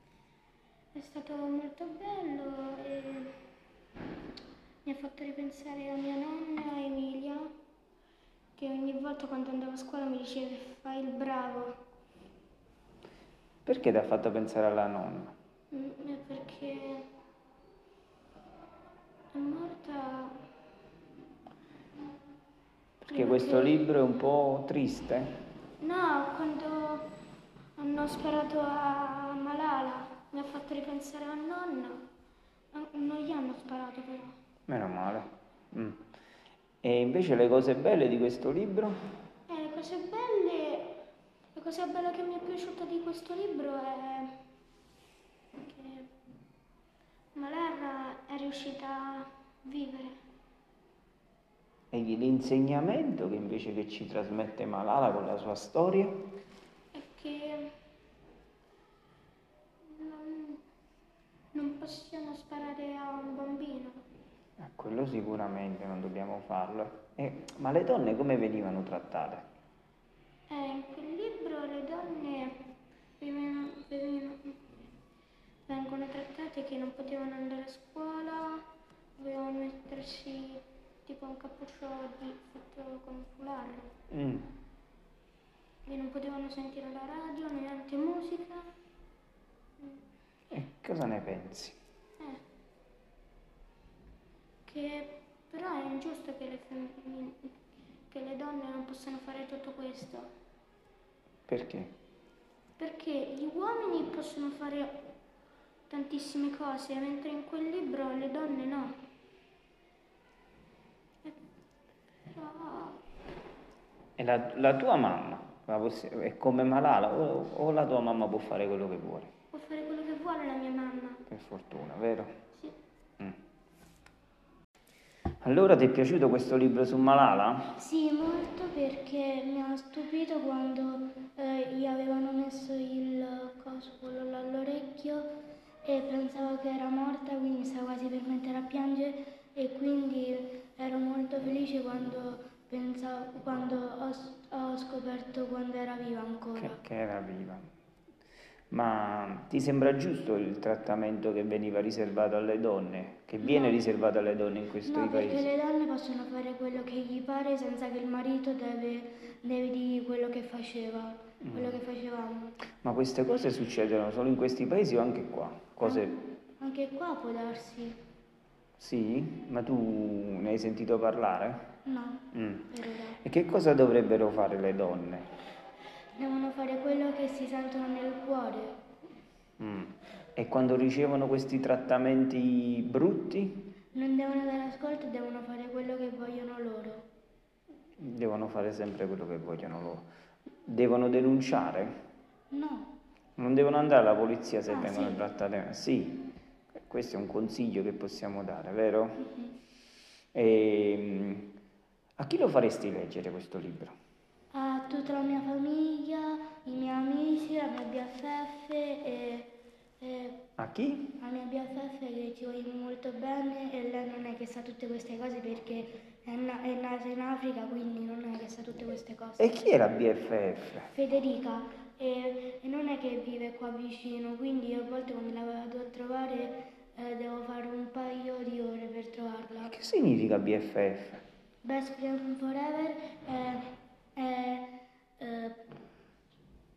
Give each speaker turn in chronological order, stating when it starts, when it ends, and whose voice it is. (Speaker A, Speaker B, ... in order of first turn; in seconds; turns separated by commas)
Speaker A: 0.9-3.4, Speaker A: 4.8-7.5, Speaker A: 8.6-11.8, Speaker B: 13.7-15.3, Speaker A: 15.7-17.1, Speaker A: 19.3-20.4, Speaker B: 23.0-25.3, Speaker A: 23.1-23.9, Speaker A: 25.8-27.2, Speaker A: 27.8-32.0, Speaker A: 32.7-34.4, Speaker B: 34.7-36.0, Speaker B: 36.8-39.0, Speaker A: 39.5-44.4, Speaker A: 45.6-46.1, Speaker A: 47.3-50.2, Speaker B: 51.9-56.1, Speaker A: 56.9-57.7, Speaker A: 59.8-60.6, Speaker A: 61.5-64.0, Speaker B: 64.6-69.4, Speaker A: 70.5-72.6, Speaker A: 73.2-74.9, Speaker A: 75.7-78.6, Speaker A: 79.2-83.9, Speaker B: 84.1-84.5, Speaker A: 85.8-88.7, Speaker B: 90.5-91.8, Speaker A: 94.7-97.5, Speaker A: 98.1-100.3, Speaker B: 101.5-101.9, Speaker A: 102.8-105.1, Speaker A: 105.9-109.0, Speaker A: 112.3-113.0, Speaker B: 114.2-119.3, Speaker A: 119.5-121.2, Speaker B: 121.3-122.3, Speaker B: 125.4-127.8, Speaker C: 127.8-135.2, Speaker C: 135.8-146.8, Speaker B: 146.6-147.7, Speaker B: 148.7-155.5, Speaker C: 153.4-153.7, Speaker C: 154.8-162.6, Speaker B: 161.4-161.7, Speaker B: 162.8-166.1, Speaker C: 165.8-168.0, Speaker B: 168.8-171.7, Speaker C: 171.8-173.2, Speaker B: 172.3-175.3, Speaker C: 176.2-178.8, Speaker B: 179.6-183.7, Speaker C: 183.9-187.0, Speaker B: 188.0-190.0, Speaker B: 190.7-191.9, Speaker C: 192.5-192.9, Speaker B: 193.4-196.3, Speaker C: 194.7-195.2, Speaker B: 196.9-199.2, Speaker B: 200.3-201.5, Speaker B: 202.2-203.9, Speaker C: 204.5-209.5, Speaker C: 210.0-210.4, Speaker B: 210.6-211.2, Speaker C: 211.2-219.6, Speaker B: 219.4-220.9, Speaker C: 220.9-229.7, Speaker B: 229.6-231.2, Speaker C: 231.6-235.6